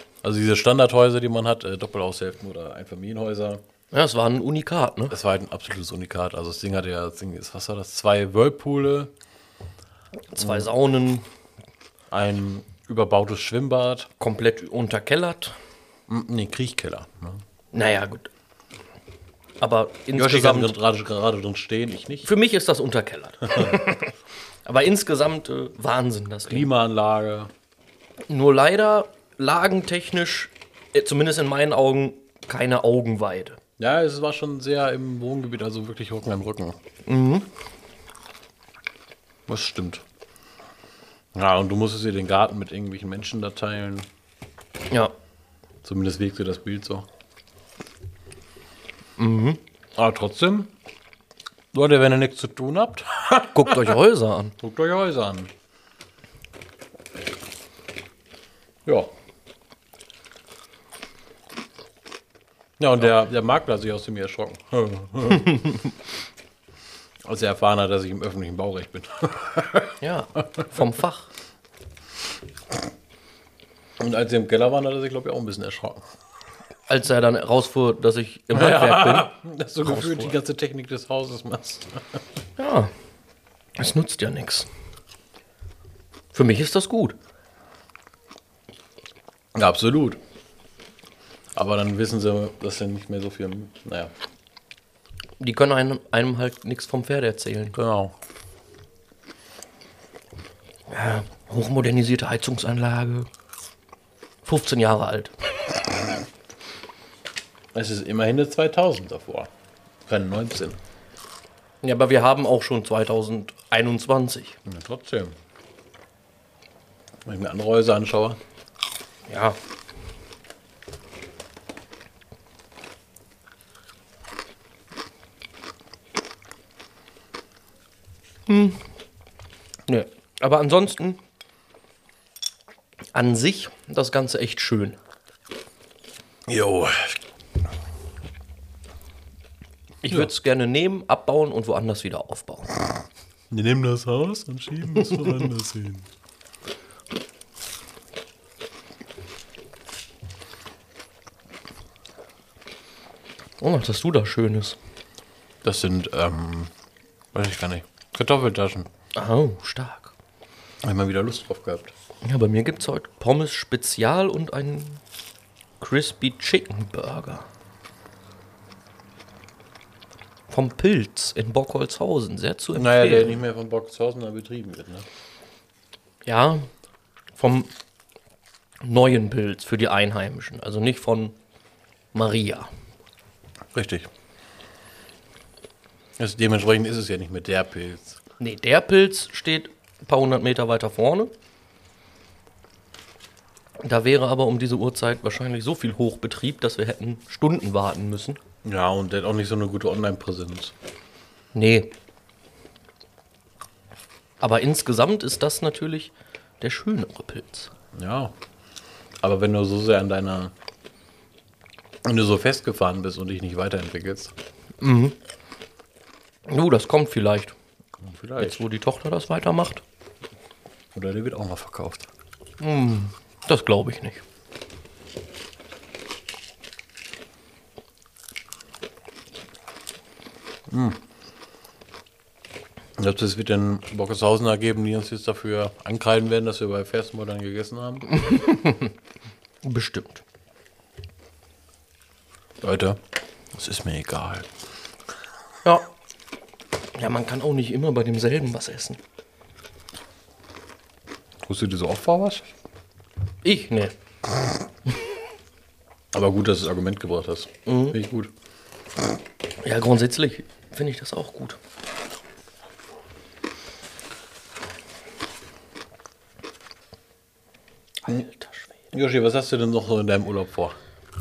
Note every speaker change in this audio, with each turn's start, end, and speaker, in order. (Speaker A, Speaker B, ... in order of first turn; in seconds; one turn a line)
Speaker A: 0.2-3.6
Speaker B: 3.9-5.1
Speaker A: 5.1-9.1
Speaker B: 10.3-11.2
Speaker A: 10.4-10.7
Speaker A: 12.1-14.1
Speaker B: 14.2-15.6
Speaker A: 16.1-17.4
Speaker B: 17.7-18.3
Speaker B: 19.6-20.7
Speaker A: 20.1-22.3
Speaker B: 22.2-24.1
Speaker A: 23.4-23.9
Speaker B: 24.6-26.7
Speaker A: 26.5-27.5
Speaker B: 28.3-33.6
Speaker A: 33.8-36.8
Speaker B: 37.0-37.5
Speaker A: 39.5-40.0
Speaker A: 41.3-44.1
Speaker A: 45.8-47.1
Speaker B: 49.2-49.6
Speaker A: 50.0-50.7
Speaker A: 51.7-54.0
Speaker B: 53.5-54.5
Speaker A: 54.6-55.5
Speaker A: 58.9-59.1
Speaker A: 62.8-65.9
Speaker A: 67.2-70.0
Speaker B: 70.0-71.3
Speaker A: 74.0-76.0
Speaker B: 76.9-79.3
Speaker A: 78.5-82.2
Speaker B: 79.8-80.3
Speaker B: 82.6-82.9
Speaker B: 83.8-84.7
Speaker B: 86.3-87.2
Speaker A: 89.5-90.2
Speaker A: 91.5-94.1
Speaker B: 95.4-97.8
Speaker A: 97.7-98.1
Speaker B: 100.9-103.3
Speaker B: 104.4-105.3
Speaker A: 107.7-109.5
Speaker A: 110.1-110.8
Speaker B: 111.8-114.6
Speaker A: 114.6-115.3
Speaker A: 117.2-118.4
Speaker B: 119.3-119.6
Speaker B: 128.5-128.8
Speaker B: 129.9-131.2
Speaker B: 133.1-135.0
Speaker A: 136.5-137.2
Speaker B: 140.0-142.7
Speaker A: 143.5-146.1
Speaker B: 153.6-154.8
Speaker A: 155.6-156.7
Speaker A: 157.3-158.9
Speaker B: 159.1-160.1
Speaker A: 160.8-161.9
Speaker B: 162.2-165.0
Speaker B: 165.8-167.5
Speaker B: 170.5-173.4
Speaker A: 172.8-175.1
Speaker B: 176.2-176.7
Speaker B: 177.3-177.7
Speaker B: 178.8-181.3
Speaker B: 182.1-182.7
Speaker A: 183.7-184.1
Speaker A: 186.2-188.2
Speaker B: 188.4-191.3
Speaker B: 193.8-198.4
Speaker A: 198.6-200.7
Speaker B: 201.5-201.9
Speaker B: 204.4-207.7
Speaker A: 207.9-208.3
Speaker A: 209.2-210.5
Speaker A: 212.0-214.3
Speaker B: 214.8-215.2
Speaker B: 216.5-217.6
Speaker A: 218.0-218.7
Speaker B: 218.4-219.8
Speaker A: 220.9-222.1
Speaker B: 222.6-224.2
Speaker A: 230.7-231.0
Speaker A: 233.0-238.1
Speaker B: 238.1-238.9
Speaker B: 239.6-240.2
Speaker A: 242.6-243.0
Speaker A: 243.5-244.5
Speaker B: 247.0-249.0
Speaker A: 251.4-252.5
Speaker B: 253.4-253.9
Speaker A: 256.1-258.3
Speaker B: 257.6-258.0
Speaker B: 259.6-261.6
Speaker B: 268.0-268.7
Speaker A: 268.9-270.8